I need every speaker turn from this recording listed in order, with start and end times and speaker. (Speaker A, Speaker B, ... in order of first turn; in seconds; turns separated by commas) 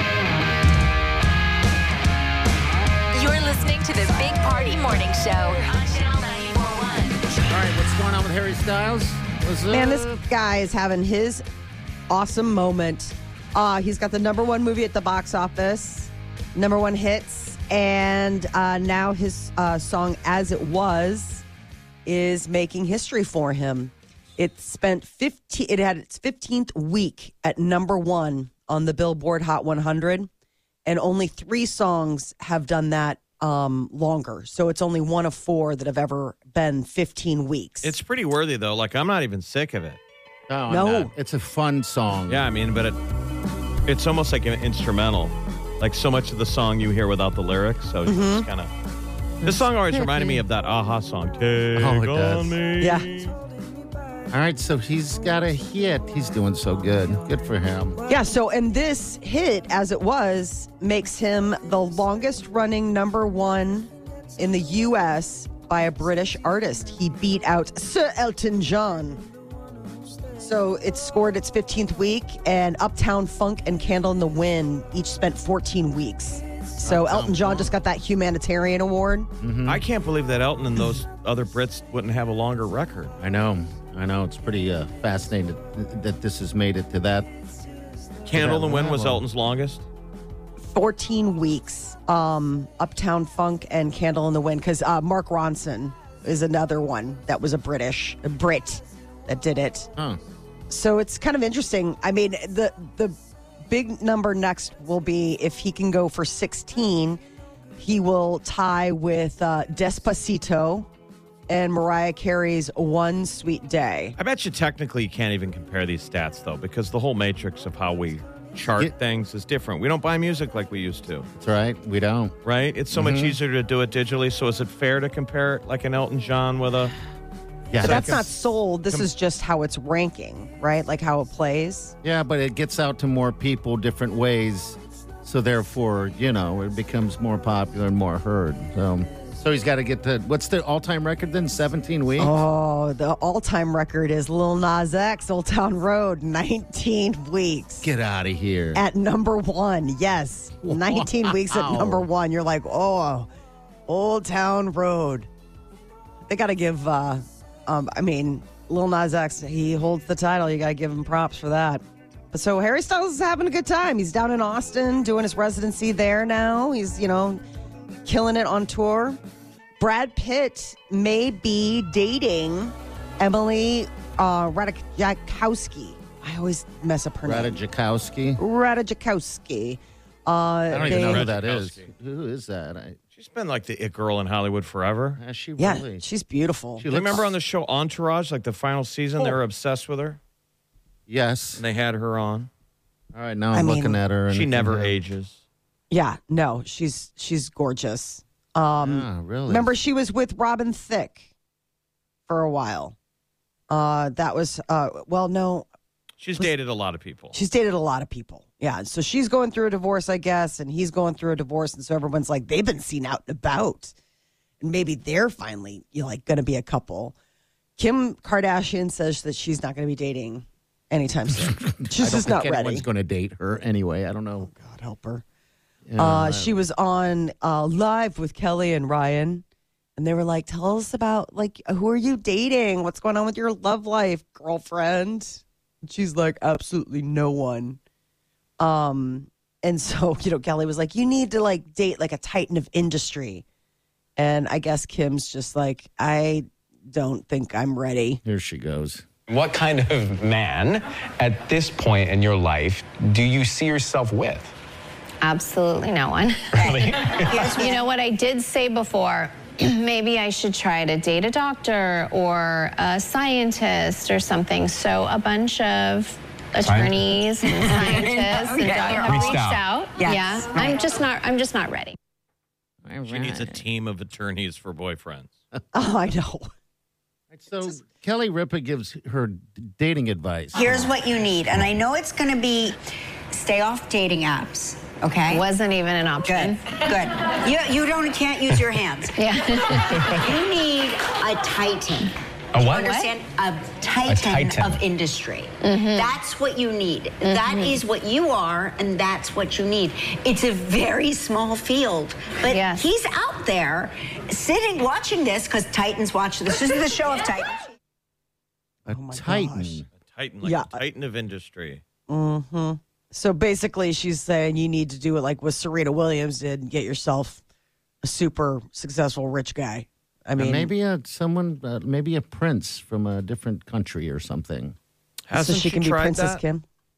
Speaker A: 3.1-7.2, Speaker B: 7.5-10.2, Speaker C: 9.7-11.4, Speaker C: 12.1-21.4, Speaker C: 22.1-30.3, Speaker C: 30.9-37.9, Speaker D: 37.8-40.0, Speaker B: 40.5-42.4, Speaker C: 40.7-41.1, Speaker D: 42.3-43.0, Speaker D: 43.9-48.7, Speaker C: 48.1-48.5, Speaker B: 49.4-50.4, Speaker D: 49.4-53.4, Speaker B: 51.8-52.6, Speaker C: 52.8-53.1, Speaker B: 54.3-58.0, Speaker C: 58.1-69.2, Speaker C: 70.4-79.3, Speaker B: 76.8-77.7, Speaker B: 79.4-79.8, Speaker D: 79.7-83.1, Speaker B: 83.2-87.3, Speaker D: 88.3-89.8, Speaker B: 88.3-89.2, Speaker C: 90.6-99.9, Speaker C: 100.7-107.2, Speaker C: 107.8-110.9, Speaker C: 111.5-114.2, Speaker D: 114.2-121.3, Speaker B: 121.4-122.3, Speaker D: 122.4-126.9, Speaker B: 122.9-123.4, Speaker B: 127.7-128.3, Speaker C: 127.8-131.9, Speaker D: 127.8-128.1, Speaker B: 132.0-142.4, Speaker C: 142.2-147.9, Speaker B: 147.8-148.8, Speaker C: 148.8-153.3, Speaker B: 150.6-152.1, Speaker C: 153.9-155.3, Speaker C: 156.3-167.4, Speaker C: 168.1-169.2, Speaker C: 169.8-177.6, Speaker B: 177.2-178.4, Speaker C: 178.4-181.3, Speaker B: 180.7-183.0, Speaker D: 180.8-181.9, Speaker D: 183.1-185.2, Speaker B: 185.2-186.0, Speaker C: 185.6-186.9, Speaker B: 186.8-187.4, Speaker D: 186.9-190.2, Speaker B: 191.1-191.6, Speaker D: 191.6-192.5, Speaker B: 193.1-194.9, Speaker C: 193.5-194.0, Speaker D: 194.3-195.4, Speaker C: 195.9-201.3, Speaker B: 198.8-199.8, Speaker C: 202.3-202.9, Speaker C: 203.7-205.7, Speaker D: 206.2-207.4, Speaker C: 207.3-213.9, Speaker C: 214.6-217.1, Speaker C: 217.8-222.9, Speaker B: 221.4-224.5, Speaker C: 224.4-225.2, Speaker B: 225.9-226.6, Speaker C: 226.0-229.4, Speaker C: 230.0-237.8, Speaker C: 238.6-243.4, Speaker C: 244.2-248.2, Speaker B: 248.2-249.1, Speaker E: 249.3-254.5, Speaker F: 255.2-272.0, Speaker G: 256.6-257.8, Speaker E: 256.6-257.5, Speaker E: 266.6-267.8, Speaker G: 267.4-269.4, Speaker E: 269.0-269.7, Speaker G: 270.0-270.9, Speaker B: 272.9-273.6, Speaker D: 273.1-275.4, Speaker C: 275.7-276.5, Speaker B: 277.3-280.9, Speaker G: 280.5-282.8, Speaker G: 283.3-285.4, Speaker F: 285.3-286.9, Speaker G: 286.3-289.1, Speaker F: 289.1-290.1, Speaker E: 289.9-290.1, Speaker G: 290.1-292.1, Speaker E: 292.5-293.0, Speaker G: 292.7-307.6, Speaker F: 292.7-293.1, Speaker E: 294.1-294.9, Speaker F: 295.6-296.1, Speaker F: 297.2-297.8, Speaker F: 302.4-302.9, Speaker B: 308.9-309.9, Speaker C: 308.9-309.8, Speaker D: 309.9-311.8, Speaker C: 310.4-310.8, Speaker C: 312.1-317.4, Speaker C: 318.0-320.7, Speaker B: 320.4-324.8, Speaker D: 325.3-326.4, Speaker C: 325.3-326.6